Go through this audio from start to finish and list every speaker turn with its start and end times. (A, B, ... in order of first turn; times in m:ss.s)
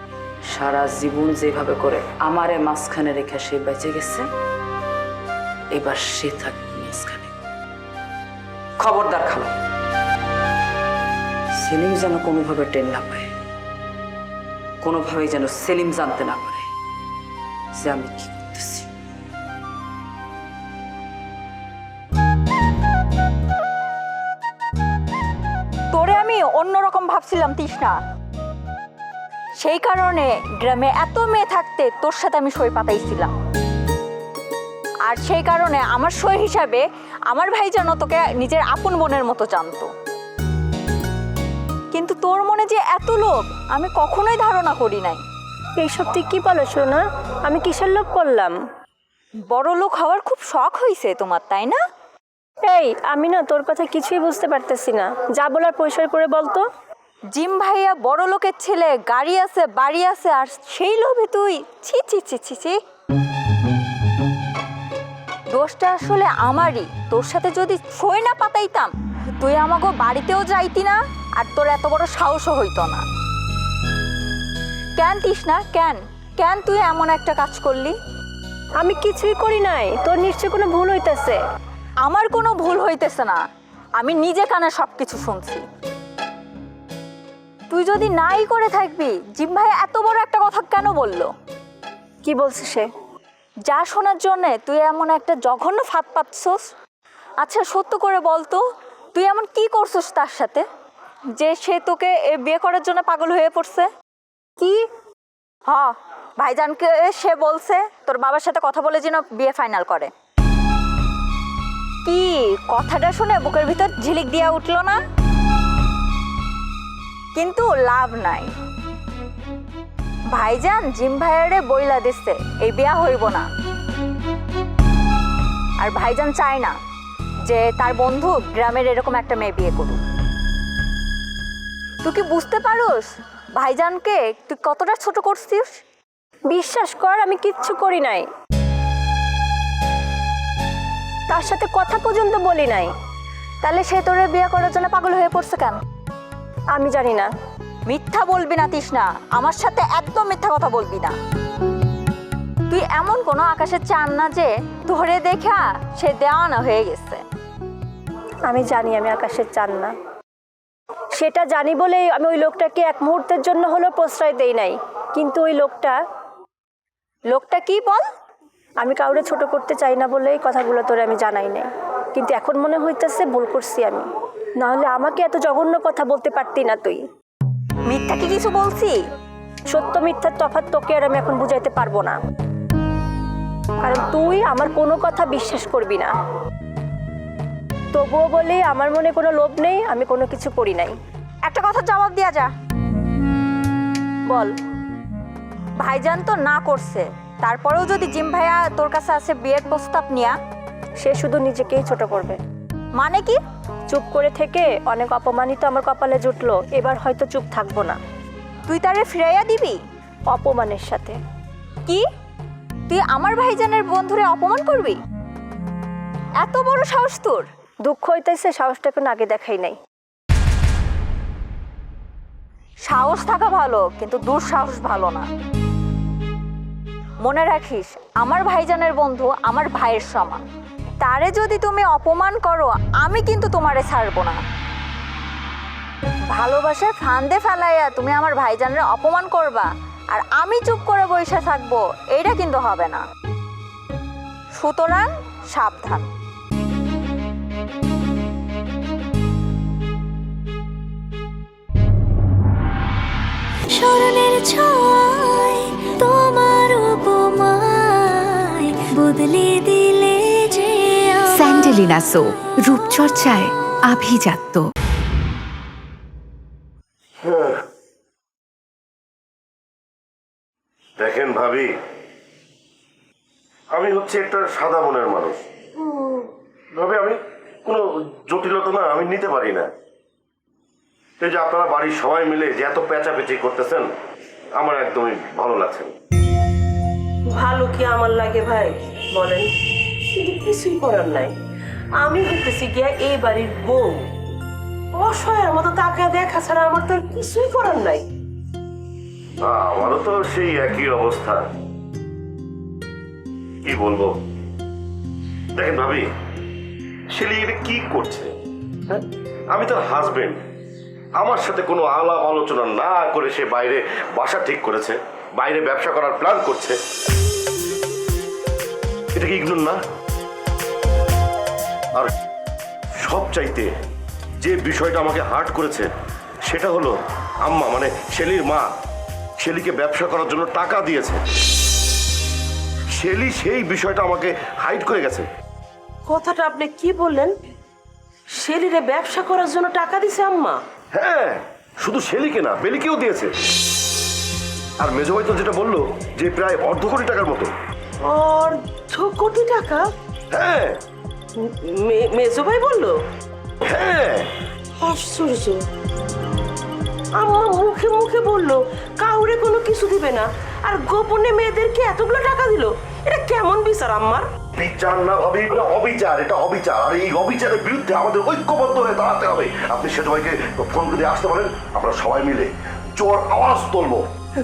0:00.5-0:04.3 A
0:05.7-0:07.3 A
0:08.8-0:09.5 A
0:11.6-0:13.3 A
0:14.8-0:16.7 A
0:17.7-0:18.9 A
0:25.9-0:28.0 B
0:29.6-0:33.3 B
0:35.0-0:39.9 B
0:41.9-0:45.2 B
0:45.8-0:48.6 C
0:49.5-0:51.8 B
0:52.6-0:56.7 C
0:57.3-1:02.8 B
1:05.5-1:13.0 B
1:15.0-1:18.0 B
1:18.8-1:21.4 C
1:22.0-1:23.4 B
1:24.0-1:25.6 B
1:27.7-1:31.3 B
1:32.2-1:32.9 C
1:33.7-1:36.7 B
1:37.4-1:38.6 B
1:39.1-1:40.6 B
1:41.4-1:43.9 B
1:45.7-1:50.1 B
1:52.0-1:55.0 B
1:57.4-1:58.5 B
2:00.3-2:03.5 B
2:05.8-2:06.8 B
2:07.4-2:10.0 B
2:12.0-2:15.8 B
2:16.5-2:18.3 C
2:21.3-2:22.9 C
2:23.6-2:25.8 B
2:26.7-2:27.3 C
2:27.8-2:31.1 B
2:32.7-2:37.2 B
2:38.5-2:39.9 C
2:41.2-2:46.0 C
2:47.3-2:48.0 B
2:48.8-2:54.1 C
2:54.6-2:57.0 C
2:57.8-2:59.0 B
2:59.7-3:02.2 C
3:03.8-3:06.1 C
3:07.9-3:11.0 C
3:11.4-3:12.5 B
3:14.3-3:14.5 B
3:15.8-3:20.4 B
3:21.0-3:22.4 C
3:23.0-3:23.4 B
3:23.9-3:28.0 C
3:28.7-3:29.8 B
3:30.3-3:31.2 C
3:32.9-3:35.0 B
3:36.4-3:37.5 B
3:37.8-3:39.8 C
3:42.8-3:45.3 B
3:47.2-3:50.4 B
3:51.0-3:54.4 B
3:56.3-4:03.0 B
4:04.6-4:06.0 B
4:13.7-4:21.7 D
4:21.4-4:24.6 E
4:27.2-4:27.6 F
4:31.0-4:31.7 F
4:33.7-4:35.4 F
4:36.7-4:39.7 F
4:41.2-4:43.8 F
4:44.6-4:45.9 F
4:47.3-4:49.5 G
4:50.1-4:51.3 G
4:52.0-4:54.1 G
4:55.0-4:58.0 G
4:59.4-5:01.4 F
5:03.6-5:04.2 F
5:05.5-5:06.1 F
5:07.1-5:08.3 F
5:09.5-5:10.4 F
5:11.2-5:16.8 F
5:19.1-5:19.8 F
5:23.0-5:23.7 F
5:24.4-5:25.9 F
5:26.5-5:28.7 F
5:29.4-5:31.2 F
5:32.9-5:35.3 F
5:36.1-5:37.3 G
5:38.4-5:40.6 G
5:40.9-5:43.3 F
5:44.8-5:47.5 F
5:48.0-5:49.9 G
5:50.3-5:50.8 F
5:51.4-5:53.0 G
5:53.6-5:54.3 F
5:54.8-5:55.6 G
5:57.2-6:04.2 G
6:04.6-6:14.1 F